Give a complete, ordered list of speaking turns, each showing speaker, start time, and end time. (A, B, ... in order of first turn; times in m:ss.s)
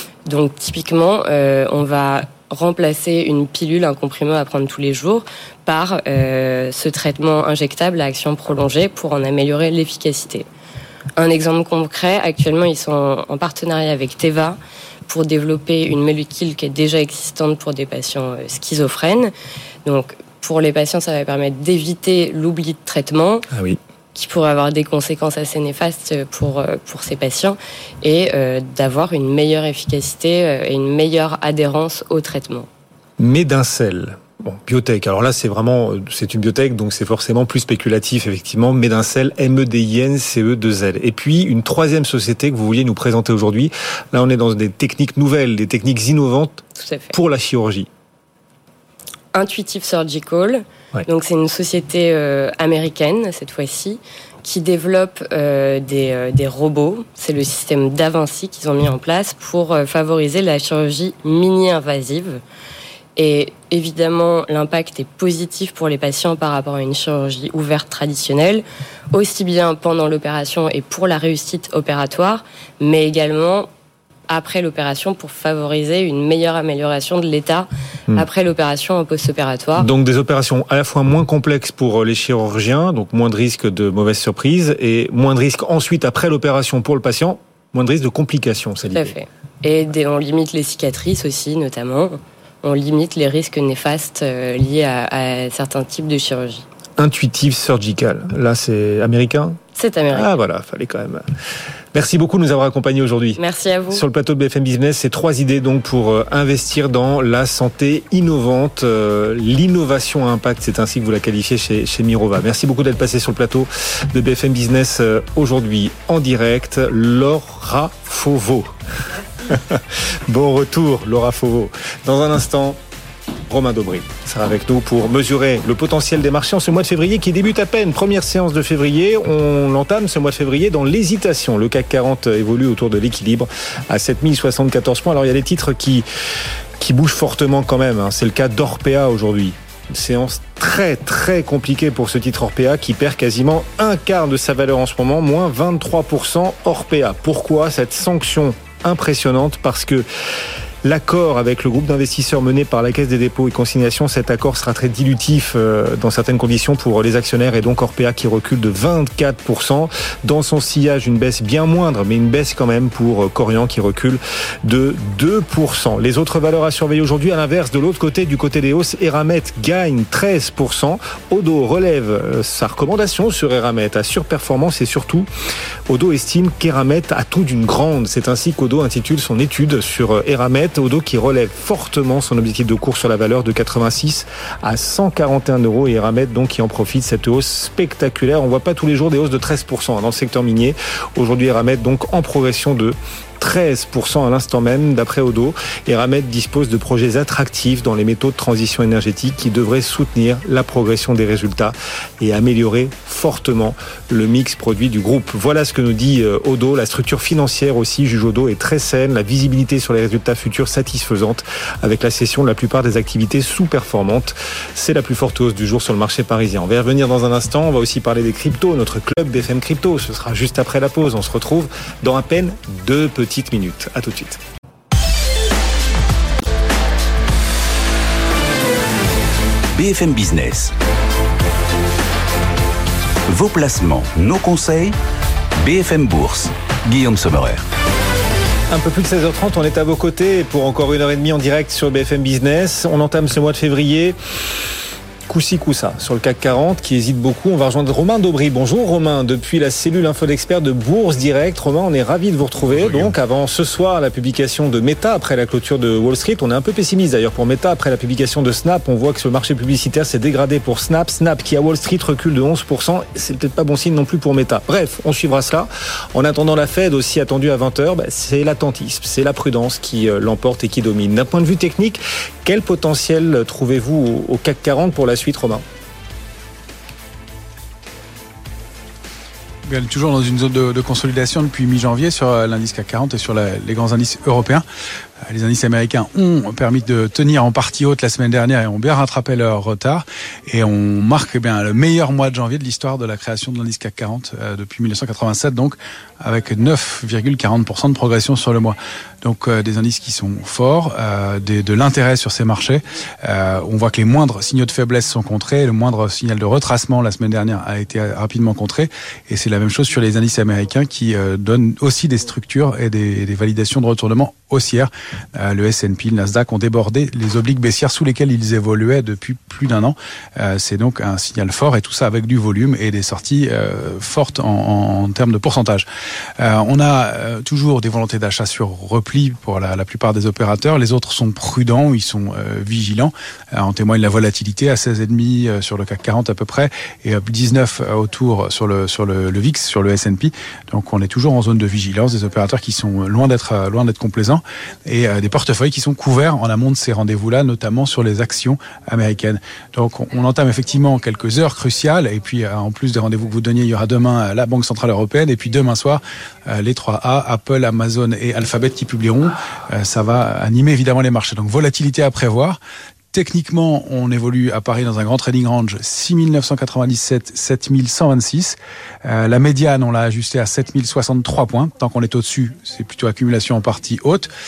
0:00.3-0:10.5 A
0:11.2-0:19.3 A
0:19.9-0:23.5 A
0:23.5-0:23.8 B
0:24.2-0:32.7 A
0:33.2-0:47.9 B
0:46.8-0:47.1 A
0:49.3-1:02.4 A
1:03.2-1:13.7 A
1:14.3-1:19.9 A
1:19.8-1:29.1 B
1:28.9-1:36.6 A
1:37.0-1:39.6 B
1:39.8-1:40.3 A
1:40.1-1:41.2 B
1:41.9-1:43.4 B
1:43.4-1:44.0 A
1:43.9-1:58.8 B
1:59.5-2:02.8 B
2:03.5-2:16.1 B
2:16.8-2:30.1 B
2:30.8-2:55.3 B
2:55.9-3:44.4 B
3:49.8-3:50.7 C
3:53.3-3:55.0 C
3:55.6-3:57.7 C
3:58.7-4:04.2 B
4:05.3-4:35.6 B
4:39.7-4:44.6 D
4:45.3-5:25.9 D
5:26.4-6:02.6 D
6:03.1-6:14.3 D